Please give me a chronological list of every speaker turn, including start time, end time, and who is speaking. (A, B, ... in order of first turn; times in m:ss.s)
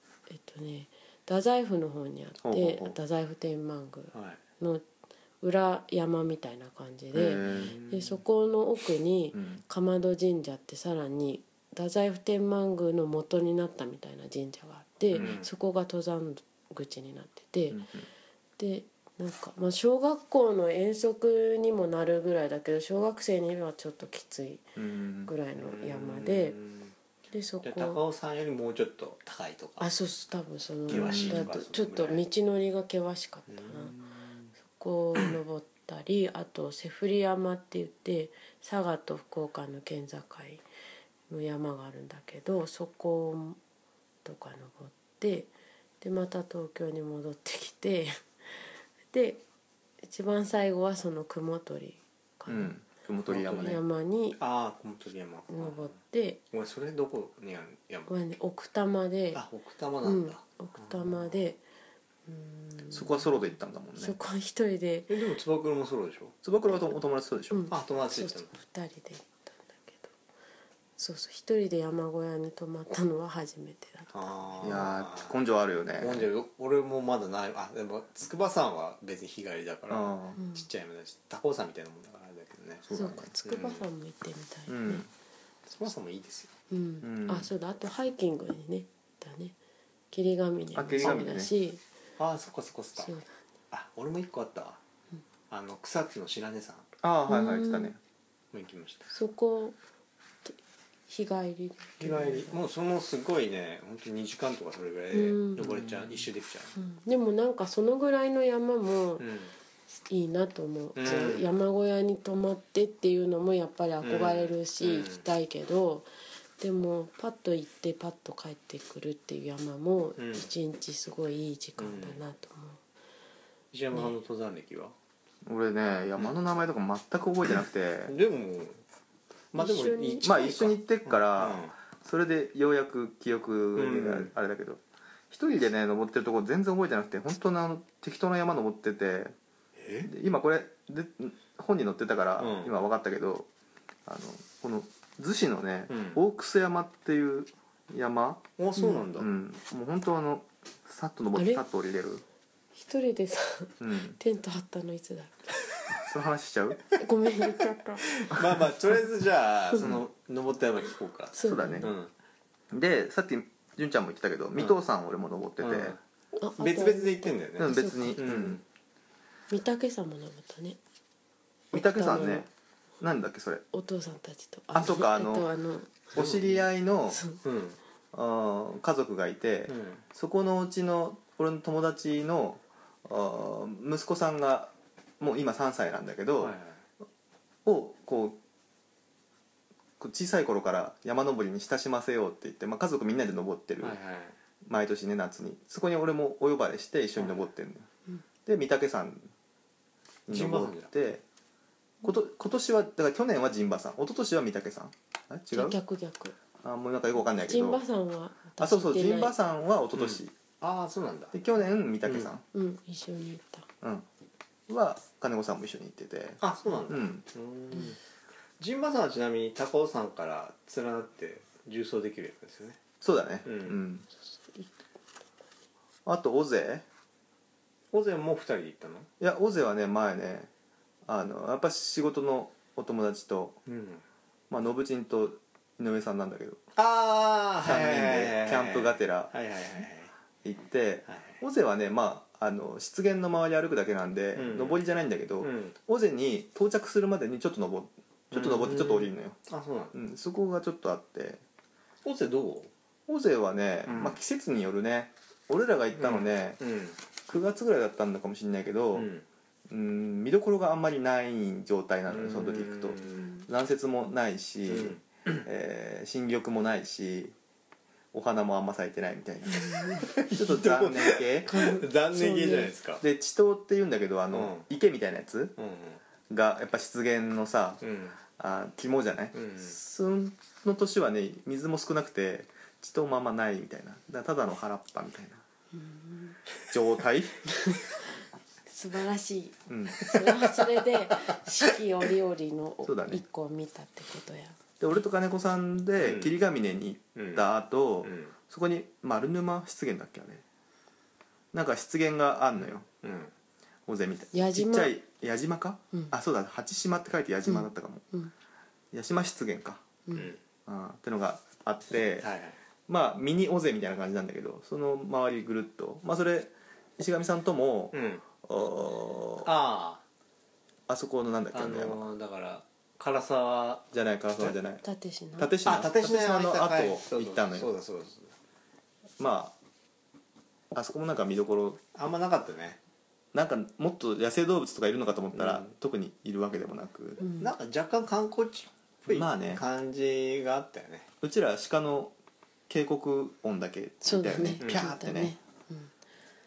0:00.3-0:04.8 A
0:02.4-0:03.0 B
0:04.1-0:04.4 C
0:05.4-0:17.8 A
0:07.1-0:07.7 B
0:07.4-0:08.2 C
0:09.3-0:09.6 B
0:15.1-0:15.5 C
0:17.7-0:18.1 B
0:18.6-0:24.7 A
0:24.8-0:25.3 B
0:25.3-0:26.6 A
0:25.6-0:27.0 C
0:27.3-0:28.0 A
0:27.6-0:29.9 C
0:29.8-0:34.0 A
0:30.9-0:32.2 C
0:30.9-0:31.5 B
0:33.5-0:34.5 C
0:34.6-0:40.6 A
0:41.3-0:43.6 A
0:44.2-0:49.4 A
0:50.0-0:52.7 A
0:52.5-0:53.8 B
0:53.3-0:53.8 C
0:53.6-0:54.4 A
0:54.4-0:56.0 C
0:55.5-0:56.4 A
0:56.5-0:58.1 C
0:58.1-0:59.4 A
0:59.3-1:01.4 C
1:00.0-1:01.6 A
1:02.3-1:03.4 A
1:02.9-1:04.2 B
1:04.0-1:05.2 A
1:05.1-1:06.4 C
1:06.4-1:07.7 B
1:07.5-1:10.1 A
1:07.7-1:08.5 C
1:11.0-1:14.9 A
1:14.1-1:15.4 C
1:14.6-1:16.3 B
1:16.0-1:22.9 C
1:19.9-1:20.4 B
1:20.4-1:20.7 A
1:22.9-1:23.3 B
1:22.9-1:25.1 A
1:23.4-1:23.8 C
1:24.7-1:25.1 B
1:25.7-1:26.5 C
1:26.7-1:29.6 A
1:27.0-1:27.5 B
1:30.1-1:31.8 A
1:30.8-1:31.5 B
1:32.2-1:33.1 C
1:33.0-1:33.4 A
1:33.7-1:34.8 C
1:35.5-1:36.9 C
1:37.0-1:38.0 B
1:37.3-1:37.9 A
1:38.5-1:39.1 C
1:39.1-1:39.8 A
1:41.1-1:42.6 A
1:42.0-1:46.8 C
1:45.1-1:45.8 A
1:45.6-1:46.2 B
1:46.8-1:49.3 A
1:49.2-1:49.5 C
1:50.1-1:56.1 A
1:51.0-1:51.5 C
1:54.0-1:55.2 C
1:56.6-2:02.8 A
2:00.2-2:00.5 C
2:01.8-2:02.2 C
2:03.7-2:05.0 C
2:05.4-2:08.1 B
2:08.1-2:08.8 C
2:09.5-2:11.7 C
2:09.5-2:10.3 A
2:10.2-2:19.3 B
2:13.8-2:14.3 C
2:19.8-2:20.1 C
2:20.1-2:23.5 B
2:22.4-2:22.7 C
2:24.1-2:28.4 B
2:25.9-2:26.2 C
2:28.6-2:29.3 C
2:28.8-2:29.1 A
2:29.2-2:32.2 B
2:31.3-2:31.6 A
2:32.8-2:35.4 A
2:33.8-2:34.2 B
2:35.9-2:36.8 B
2:37.0-2:38.1 A
2:38.1-2:42.1 C
2:39.8-2:40.0 B
2:41.3-2:41.9 A
2:41.4-2:41.9 B
2:42.7-2:46.0 B
2:45.6-2:46.0 C
2:46.4-2:48.4 A
2:46.6-2:48.6 C
2:47.6-2:48.6 B
2:49.5-2:50.8 A
2:51.7-2:52.5 B
2:51.7-2:52.5 A
2:53.0-2:53.6 B
2:53.7-2:56.1 A
2:54.8-2:55.5 B
2:56.1-2:57.2 B
2:56.2-2:56.7 C
2:57.1-2:57.4 A
2:57.4-2:57.8 C
2:58.1-3:06.6 B
2:59.7-3:00.0 C
3:06.4-3:06.8 C
3:07.6-3:08.4 B
3:10.0-3:14.0 B
3:13.8-3:14.4 C
3:14.6-3:17.9 B
3:18.5-3:19.3 B
3:20.3-3:21.2 B
3:20.3-3:20.9 C
3:22.0-3:25.8 B
3:25.5-3:26.4 A
3:26.6-3:27.8 B
3:27.4-3:29.4 A
3:28.6-3:30.3 B
3:29.9-3:31.4 C
3:31.3-3:32.4 B
3:32.1-3:32.3 C
3:32.5-3:33.7 A
3:34.7-3:37.2 B
3:36.4-3:38.0 C
3:38.6-3:42.8 C
3:43.0-3:44.1 B
3:43.4-3:43.8 C
3:44.4-3:44.7 A
3:46.1-3:46.8 B
3:47.9-3:49.1 C
3:49.2-3:50.5 B
3:51.1-3:53.6 B
3:53.7-3:54.0 C
3:54.5-3:56.6 B
3:56.8-4:00.1 C
3:57.6-3:59.3 B
4:00.4-4:09.4 B
4:01.1-4:01.4 C
4:04.4-4:04.8 C
4:05.4-4:05.8 C
4:08.3-4:10.0 C
4:09.9-4:11.4 B
4:12.0-4:12.7 C
4:13.1-4:16.6 B
4:13.9-4:14.2 C
4:16.0-4:17.0 C
4:17.3-4:19.1 B
4:19.0-4:19.2 C
4:19.7-4:27.3 B
4:22.1-4:23.4 C
4:24.7-4:25.4 C
4:28.1-4:31.5 B
4:29.5-4:30.1 A
4:30.0-4:33.0 C
4:31.5-4:32.7 A
4:33.0-4:35.6 B
4:34.3-4:34.6 C
4:35.6-4:36.0 C
4:36.3-4:37.8 B
4:37.8-4:38.2 C
4:38.4-4:45.4 B
4:39.3-4:39.8 C
4:45.7-4:46.4 A
4:46.7-4:47.4 B
4:47.6-4:47.8 A
4:48.7-4:54.6 A
4:49.7-4:50.1 B
4:52.8-4:53.2 B
4:54.8-5:00.4 B
4:56.0-4:56.4 C
4:57.2-4:57.4 C
4:58.0-4:58.3 C
5:01.5-5:02.9 B
5:02.6-5:03.3 C
5:03.9-5:08.0 B
5:04.3-5:04.9 A
5:07.5-5:08.3 A
5:08.9-5:09.8 B
5:10.1-5:10.3 A
5:10.1-5:10.4 C
5:10.7-5:12.3 B
5:12.2-5:12.6 C
5:12.9-5:19.5 B
5:17.9-5:18.2 C
5:19.4-5:20.0 C
5:20.9-5:22.1 B
5:21.5-5:24.6 C
5:23.9-5:24.8 B
5:24.8-5:25.6 A
5:25.4-5:27.7 B
5:25.6-5:28.3 C
5:29.2-5:29.5 B
5:30.7-5:31.8 B
5:32.0-5:32.8 C
5:33.3-5:37.2 B
5:35.3-5:35.7 C
5:37.2-5:37.5 A
5:37.4-5:41.1 C
5:39.1-5:39.6 B
5:41.2-5:42.2 B
5:42.7-5:45.4 B
5:44.0-5:45.9 A
5:44.6-5:44.9 C